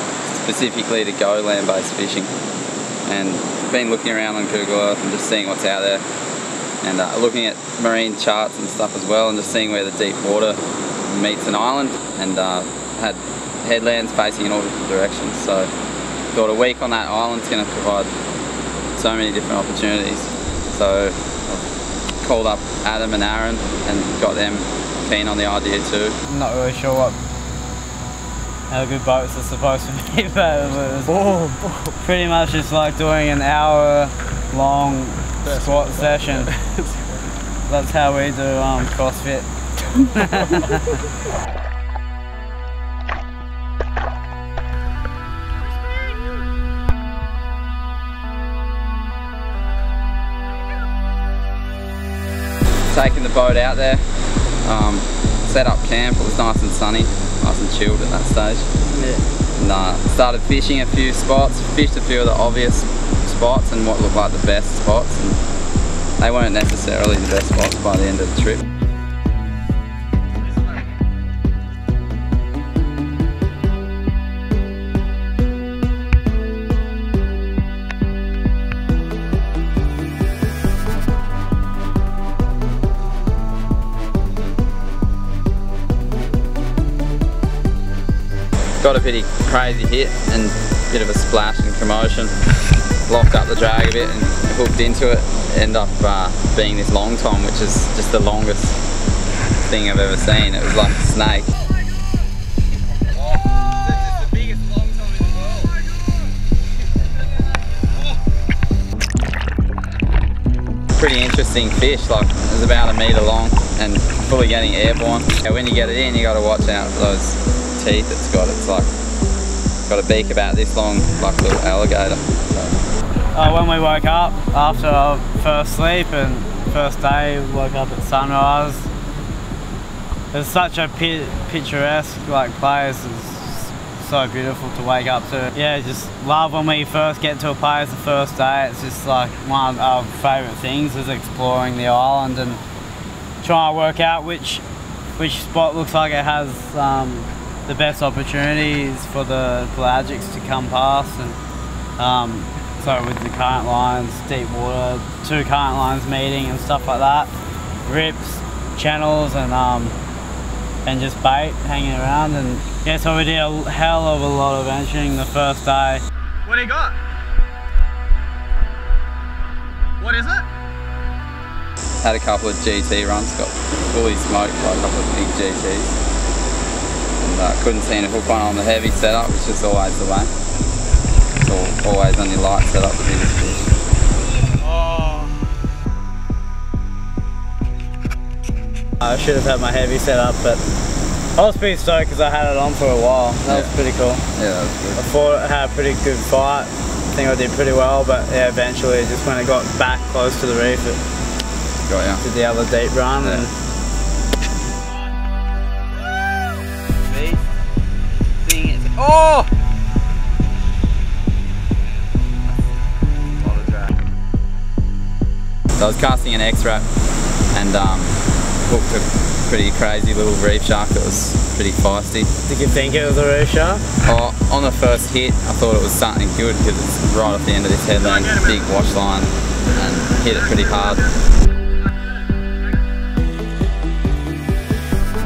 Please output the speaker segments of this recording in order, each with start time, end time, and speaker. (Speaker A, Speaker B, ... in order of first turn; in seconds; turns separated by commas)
Speaker A: 0.2-2.3, Speaker A: 3.1-6.0, Speaker A: 6.8-15.7, Speaker A: 16.3-18.1, Speaker A: 18.9-21.6, Speaker A: 22.2-26.1, Speaker B: 26.2-27.2, Speaker B: 28.7-31.3, Speaker C: 31.1-31.9, Speaker B: 32.0-36.5, Speaker C: 35.5-37.2, Speaker B: 37.7-40.9, Speaker A: 52.9-54.0, Speaker A: 54.6-58.7, Speaker B: 58.9-59.2, Speaker A: 59.6-65.4, Speaker A: 66.2-68.6, Speaker A: 88.8-92.3, Speaker A: 93.1-98.8, Speaker A: 99.6-101.5, Speaker A: 111.0-118.9, Speaker A: 119.9-122.8, Speaker B: 123.3-128.9, Speaker B: 130.3-142.6, Speaker B: 143.4-144.6, Speaker B: 145.2-151.4, Speaker B: 152.0-157.3, Speaker B: 157.8-159.9, Speaker B: 160.8-166.0, Speaker C: 166.4-166.9, Speaker C: 170.0-170.4, Speaker A: 172.0-175.9, Speaker A: 177.2-180.3, Speaker A: 181.4-183.7, Speaker B: 189.0-190.6, Speaker B: 191.3-194.2, Speaker A: 193.5-195.0, Speaker B: 194.9-201.0, Speaker A: 201.9-202.2, Speaker B: 202.2-203.5, Speaker A: 203.2-203.5, Speaker A: 207.1-207.4, Speaker A: 208.4-209.5, Speaker A: 213.4-213.9, Speaker A: 215.8-216.8, Speaker A: 217.5-222.3, Speaker B: 222.5-223.8, Speaker A: 224.0-231.1, Speaker C: 228.0-228.6, Speaker C: 230.5-230.7